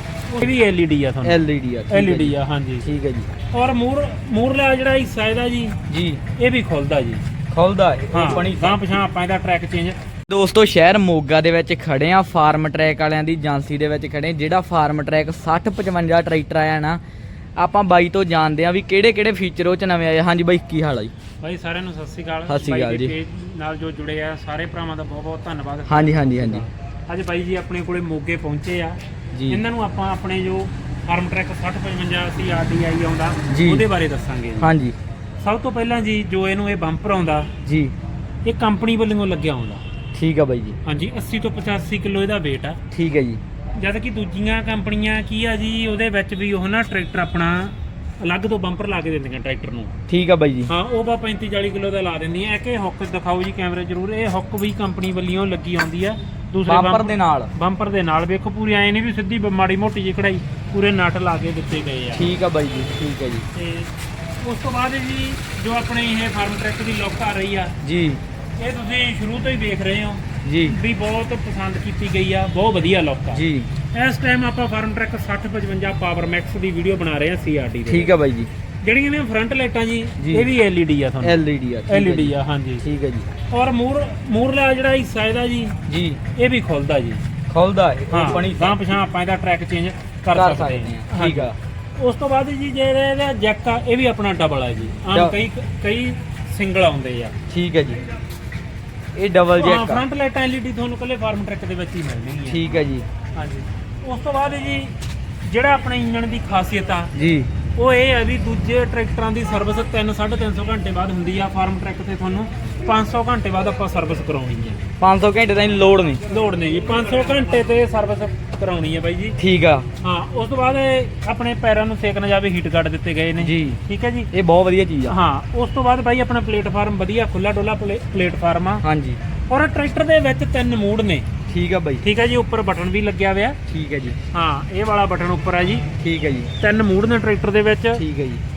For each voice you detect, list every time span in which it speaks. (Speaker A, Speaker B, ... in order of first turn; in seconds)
Speaker A: 0.3-2.9, 3.5-5.8, 6.3-7.2, 8.1-10.0, 21.4-29.0, 29.5-34.7, 35.4-37.5, 38.4-39.8, 40.8-42.8, 43.8-49.9, 50.7-62.3, 63.5-63.9, 64.4-67.8, 68.6-78.1, 78.8-82.8, 83.5-85.8, 86.3-87.2, 88.1-97.4, 99.5-102.8, 103.3-107.1, 107.8-114.8, 116.3-119.4, 120.0-124.3, 125.0-128.8, 129.5-131.3, 132.0-133.6, 134.3-135.9, 136.6-138.0
Speaker B: 1.2-3.3, 5.9-6.2, 7.5-8.9, 10.3-17.0, 17.6-21.1, 22.5-23.1, 25.9-26.6, 29.3-29.6, 33.5-33.8, 34.6-35.0, 37.6-37.9, 40.1-40.8, 42.9-43.4, 50.1-50.7, 56.7-57.5, 62.1-63.5, 67.8-68.2, 70.4-70.8, 73.3-73.7, 77.8-78.5, 80.2-80.5, 81.2-83.3, 85.9-86.2, 87.5-89.0, 90.3-91.5, 97.5-98.0, 99.1-100.0, 102.5-103.0, 107.1-107.5, 115.0-116.2, 119.4-119.9, 123.4-123.8, 124.3-125.2, 128.8-129.2, 131.5-132.0, 133.7-134.2, 136.0-136.5, 138.0-138.4